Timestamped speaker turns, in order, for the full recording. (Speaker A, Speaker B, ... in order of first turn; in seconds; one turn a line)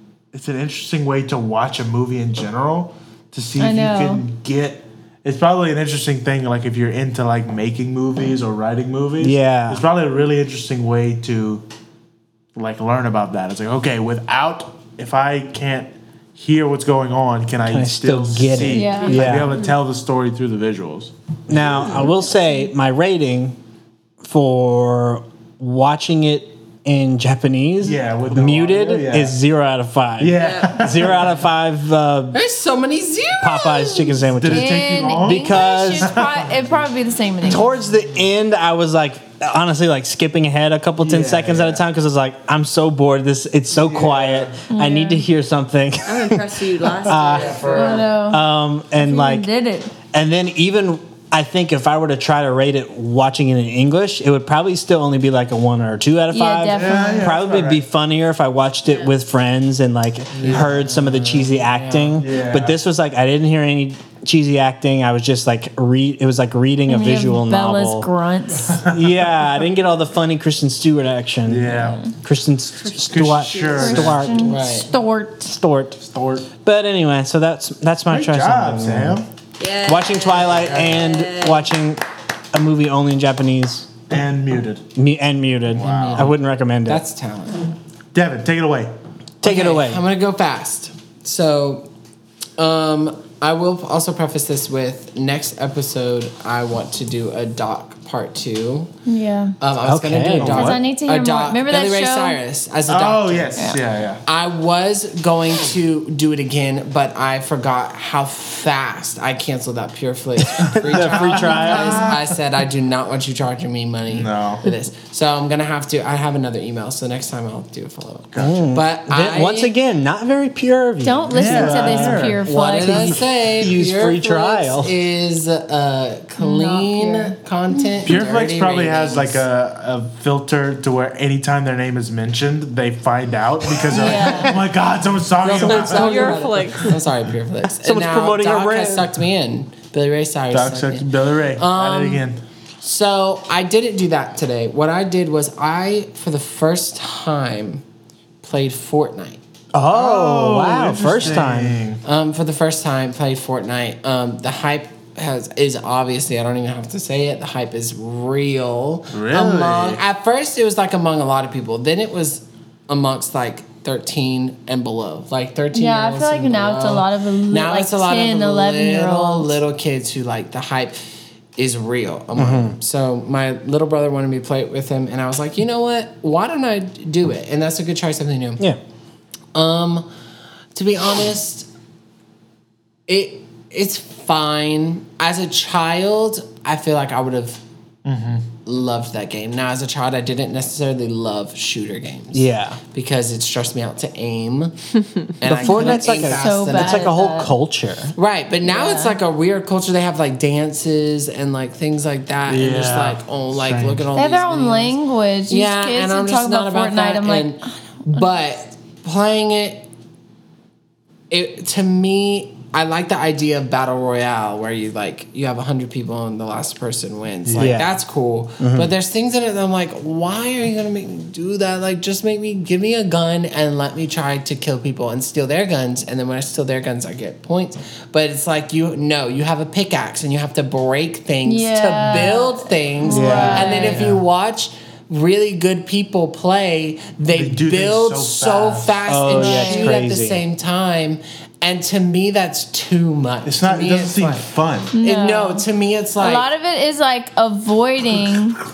Speaker A: 0.3-11.6
Speaker B: 3.6-4.2
Speaker C: 9.2-9.8
Speaker A: 12.5-22.1
Speaker C: 17.6-19.6
Speaker B: 18.6-19.4
Speaker D: 19.0-19.7
Speaker C: 21.5-23.6
Speaker C: 24.2-32.4
Speaker A: 27.8-29.4
Speaker A: 30.2-31.3
Speaker D: 30.4-30.8
Speaker E: 32.3-34.2
Speaker C: 33.4-36.1
Speaker A: 34.4-36.7
Speaker B: 34.5-37.7
Speaker C: 37.4-49.5
Speaker A: 41.0-41.8
Speaker A: 43.7-44.6
Speaker B: 44.7-45.2
Speaker D: 46.0-48.0
Speaker A: 47.1-48.2
Speaker B: 47.7-48.4
Speaker B: 48.9-50.0
Speaker C: 50.1-68.1
Speaker B: 56.3-57.3
Speaker A: 56.7-57.8
Speaker D: 58.9-59.1
Speaker A: 60.3-60.8
Speaker E: 60.4-62.2
Speaker A: 62.1-62.8
Speaker B: 66.9-68.8
Speaker A: 68.6-69.2
Speaker C: 68.8-74.5
Speaker A: 71.5-72.0
Speaker B: 71.7-72.1
Speaker D: 72.8-73.9
Speaker A: 73.1-74.3
Speaker B: 73.8-75.5
Speaker E: 74.4-74.9
Speaker C: 75.4-76.0
Speaker A: 76.0-76.5
Speaker C: 76.6-79.2
Speaker A: 78.1-79.2
Speaker D: 79.6-81.7
Speaker C: 79.8-83.9
Speaker A: 84.1-84.8
Speaker C: 84.9-87.0
Speaker A: 85.7-86.3
Speaker E: 85.8-87.7
Speaker A: 88.1-88.9
Speaker C: 89.4-90.0
Speaker E: 89.4-91.9
Speaker E: 92.6-98.9
Speaker B: 99.0-99.5
Speaker E: 99.6-103.7
Speaker C: 99.8-100.8
Speaker A: 100.4-100.8
Speaker B: 100.5-102.4
Speaker A: 102.9-104.2
Speaker E: 104.2-119.7
Speaker C: 110.4-112.2
Speaker A: 111.0-112.3
Speaker B: 111.4-112.1
Speaker A: 114.1-114.7
Speaker A: 118.3-118.7
Speaker C: 118.3-124.9
Speaker B: 121.0-123.2
Speaker A: 121.3-122.4
Speaker E: 122.4-129.4
Speaker B: 126.4-128.1
Speaker A: 128.0-136.9
Speaker B: 133.9-134.7
Speaker E: 133.9-134.6
Speaker E: 135.4-142.2
Speaker D: 135.6-137.0
Speaker C: 137.8-139.1
Speaker A: 140.5-142.4
Speaker E: 142.8-147.8
Speaker E: 148.4-149.4
Speaker C: 149.7-151.8
Speaker A: 149.9-152.0
Speaker E: 152.0-171.0
Speaker A: 159.1-160.0
Speaker B: 165.7-169.6
Speaker E: 171.6-178.7
Speaker C: 172.3-172.7
Speaker E: 179.5-180.1
Speaker E: 180.7-181.7
Speaker E: 183.1-187.6
Speaker A: 188.0-188.4
Speaker E: 188.6-194.8
Speaker C: 192.3-192.8
Speaker E: 195.4-197.1
Speaker C: 195.4-198.1
Speaker B: 195.5-197.5
Speaker E: 198.1-205.0
Speaker B: 198.6-199.2
Speaker A: 202.5-204.1
Speaker B: 204.1-208.2
Speaker E: 205.5-209.8
Speaker E: 211.3-246.5
Speaker A: 217.4-217.8
Speaker C: 217.6-217.9
Speaker C: 218.6-218.9
Speaker B: 231.4-234.1
Speaker C: 233.1-233.7
Speaker A: 233.4-234.2
Speaker A: 237.3-239.0
Speaker C: 239.1-240.4
Speaker B: 239.3-240.0
Speaker A: 243.4-244.9
Speaker B: 244.9-245.6
Speaker B: 246.2-248.6